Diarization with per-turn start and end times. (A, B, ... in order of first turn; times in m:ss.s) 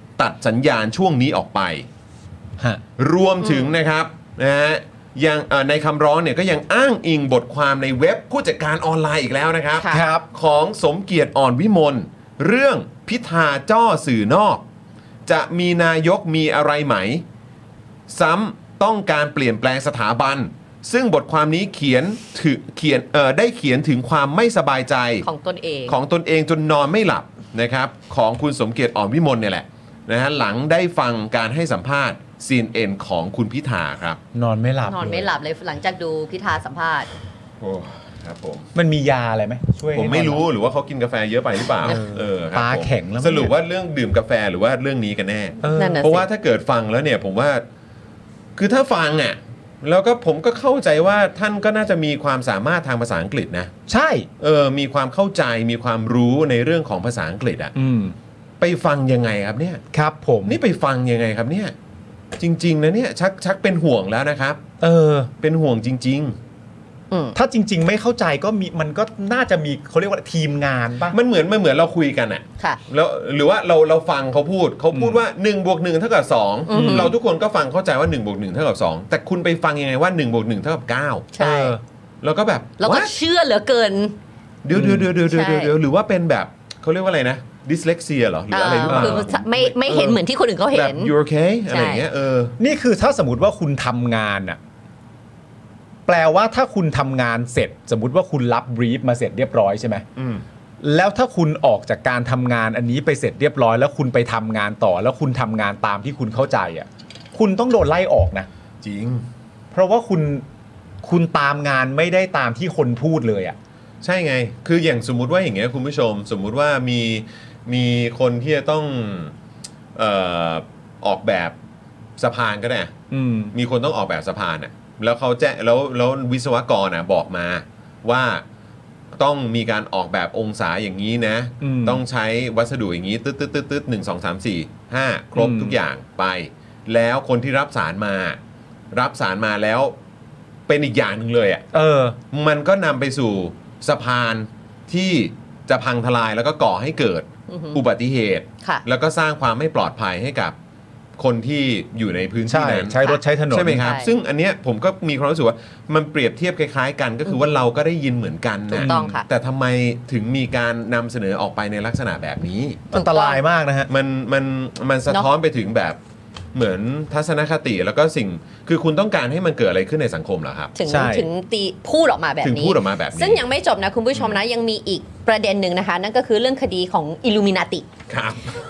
0:00.2-0:01.9 A
0:03.0-0:14.6 A
0:03.4-0:03.7 B
0:09.9-0:10.2 C
0:15.2-0:17.2 A
0:18.1-0:25.2 A
0:25.2-0:26.0 B
0:25.9-0:34.2 A
0:34.3-0:35.3 C
0:34.8-0:37.1 B
0:37.6-0:38.7 A
0:38.7-0:40.4 C
0:39.9-0:47.6 A
0:41.8-0:43.5 C
0:45.6-0:46.0 C
0:45.7-0:46.2 B
0:48.6-0:53.7 A
0:53.9-0:54.3 C
0:54.4-0:57.7 A
0:57.7-0:58.1 C
0:58.6-0:59.8 A
0:59.9-1:00.6 C
1:00.4-1:01.7 A
1:02.4-1:04.6 A
1:04.8-1:05.3 C
1:05.4-1:06.4 A
1:07.1-1:07.4 B
1:07.3-1:11.2 C
1:11.1-1:21.3 A
1:14.9-1:15.2 C
1:16.7-1:17.1 B
1:16.7-1:17.1 C
1:21.3-1:21.7 B
1:21.4-1:21.8 C
1:22.2-1:23.1 A
1:22.8-1:24.2 B
1:24.6-1:30.2 A
1:24.7-1:25.1 C
1:25.3-1:25.7 B
1:28.5-1:31.1 B
1:28.9-1:29.3 C
1:30.7-1:32.6 A
1:31.7-1:32.0 B
1:32.6-1:34.6 C
1:36.1-1:40.0 C
1:40.2-1:40.4 A
1:40.8-1:48.5 C
1:48.8-1:49.2 A
1:49.7-1:50.4 C
1:51.0-1:53.6 C
1:54.0-1:59.3 A
1:59.9-2:01.6 A
2:02.2-2:02.9 A
2:03.1-2:03.5 C
2:03.5-2:08.4 A
2:09.1-2:18.4 A
2:11.6-2:12.0 C
2:15.3-2:15.8 C
2:18.9-2:19.9 A
2:20.7-2:21.6 A
2:21.7-2:22.2 C
2:22.3-2:30.5 A
2:27.5-2:27.8 B
2:31.2-2:33.0 A
2:32.5-2:33.9 C
2:33.5-2:42.8 A
2:33.7-2:34.1 B
2:38.8-2:39.1 C
2:38.8-2:39.2 B
2:42.9-2:43.4 B
2:42.9-2:43.9 C
2:43.9-2:46.0 A
2:46.5-2:50.7 A
2:50.8-2:57.9 B
2:50.8-2:51.2 C
2:52.4-2:53.4 A
2:58.1-2:58.4 A